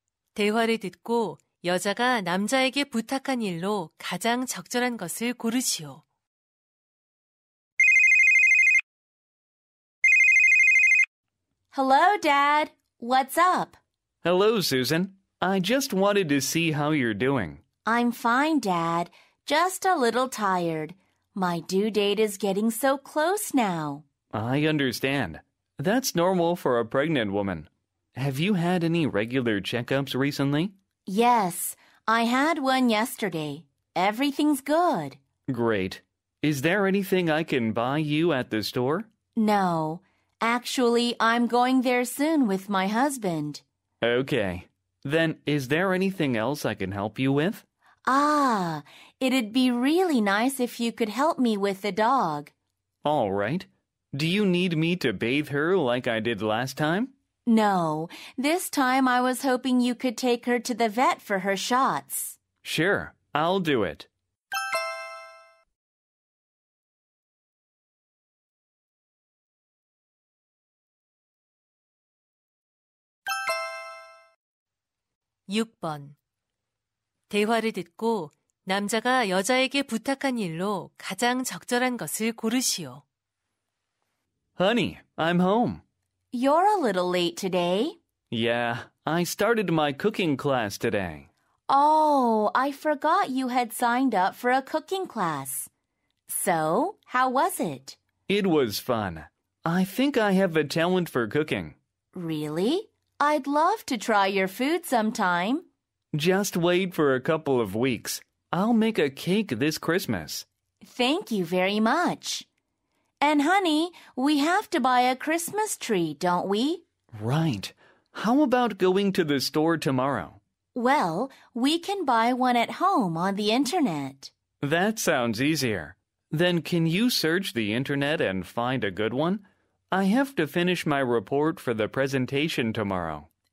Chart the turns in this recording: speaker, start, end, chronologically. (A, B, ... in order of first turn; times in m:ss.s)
0:00.3-0:06.0 A
0:11.7-0:13.8 B
0:14.2-0:17.6 C
0:17.8-0:24.0 B
0:24.3-0:30.7 C
0:31.1-0:35.2 B
0:35.5-0:39.1 C
0:39.4-0:43.6 B
0:44.0-0:47.6 C
0:48.1-0:52.5 B
0:53.0-0:57.1 C
0:57.5-1:02.4 B
1:02.6-1:04.1 C
1:15.5-1:16.2 A
1:17.3-1:23.0 A
1:24.6-1:25.8 C
1:26.3-1:28.0 B
1:28.3-1:31.3 C
1:31.7-1:35.7 B
1:36.3-1:38.0 B
1:38.3-1:41.8 C
1:42.1-1:45.7 B
1:46.1-1:50.4 C
1:50.8-1:52.5 B
1:53.2-1:56.8 B
1:57.1-2:00.4 C
2:00.7-2:04.3 B
2:04.6-2:13.3 C